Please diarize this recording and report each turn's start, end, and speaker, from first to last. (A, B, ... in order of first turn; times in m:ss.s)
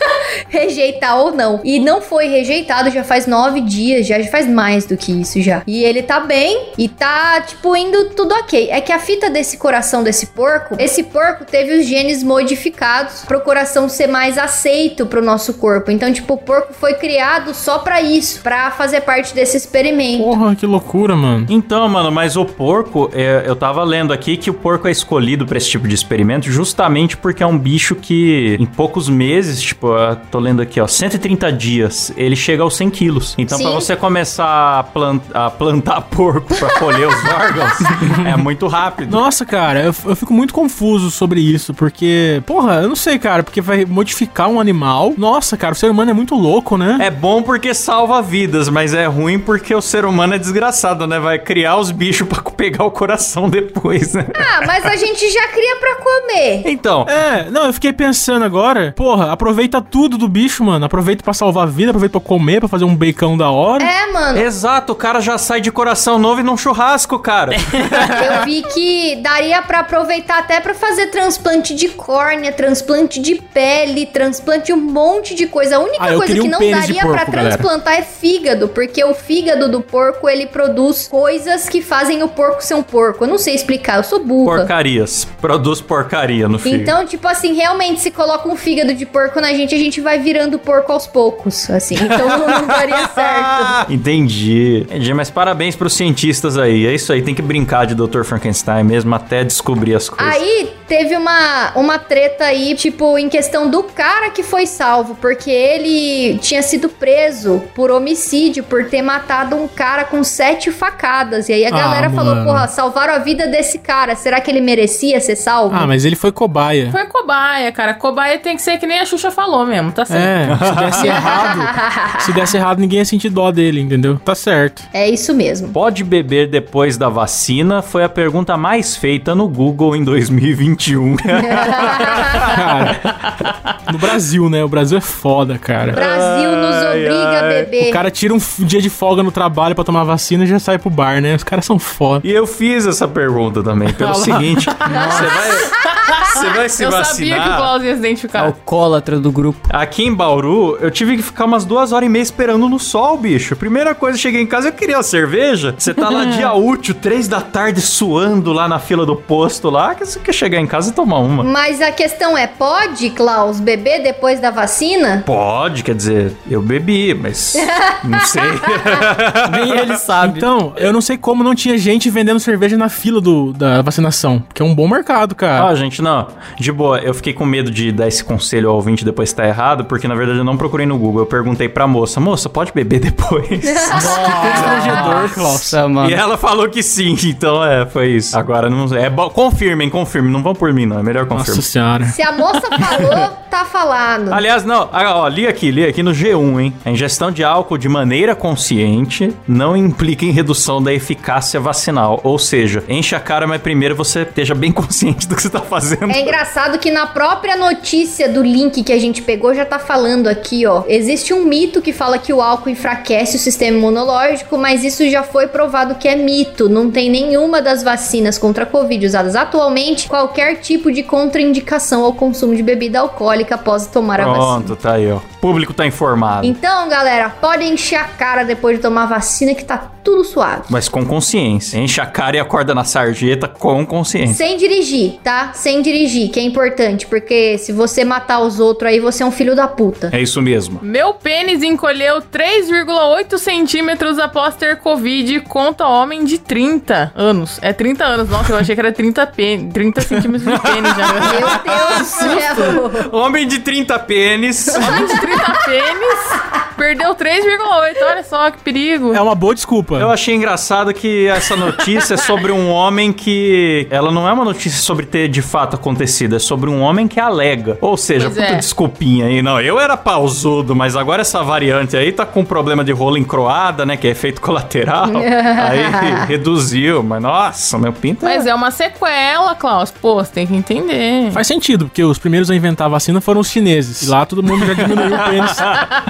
0:00.5-0:20.3 A
0:20.2-0:21.5 B
0:21.5-0:39.2 C
0:33.5-0:33.9 A
0:39.1-0:47.1 B
0:47.0-0:54.6 C
0:54.4-0:56.7 A
0:56.6-0:57.1 C
0:57.1-1:03.9 B
1:03.8-1:04.5 A
1:04.3-1:08.4 C
1:08.1-1:24.7 A
1:16.0-1:17.7 B
1:24.4-1:27.0 C
1:26.6-1:33.9 A
1:32.2-1:40.4 C
1:40.2-1:55.9 A
1:51.7-1:52.7 B
1:55.7-1:57.0 B
1:56.9-2:00.4 D
2:00.1-2:04.8 B
2:00.5-2:01.2 C
2:01.2-2:02.3 A
2:04.9-2:05.8 A
2:05.7-2:12.6 C
2:11.5-2:12.2 A
2:12.5-2:13.0 B
2:13.1-2:13.5 C
2:13.9-2:16.0 B
2:15.9-2:17.7 C
2:15.9-2:18.0 A
2:17.8-2:22.2 B
2:22.2-2:27.7 C
2:23.9-2:24.6 B
2:24.9-2:25.3 E
2:24.9-2:25.8 A
2:25.0-2:28.6 D
2:28.4-2:29.7 E
2:29.7-2:41.5 C
2:36.1-2:36.5 D
2:41.4-2:45.3 A
2:45.3-2:50.0 C
2:47.6-2:48.5 A
2:49.4-2:50.5 E
2:50.2-2:55.7 B
2:55.6-3:11.6 C
3:03.7-3:04.6 A
3:03.9-3:06.2 E
3:04.0-3:05.8 B
3:11.3-3:12.2 B
3:12.1-3:14.4 A
3:12.8-3:13.2 C
3:14.3-3:26.4 C
3:26.1-3:44.7 A
3:44.2-3:46.6 C
3:46.4-3:50.7 A
3:50.7-3:54.4 C
3:54.3-4:00.1 A
4:00.1-4:00.8 C
4:00.8-4:12.0 D
4:10.5-4:15.1 C
4:11.2-4:13.1 A
4:14.7-4:15.5 A
4:14.8-4:19.2 D
4:19.1-4:20.1 B
4:20.0-4:38.5 C
4:28.2-4:28.7 D
4:35.1-4:36.2 A
4:38.2-4:41.4 D
4:41.3-4:45.7 B
4:44.9-4:45.9 C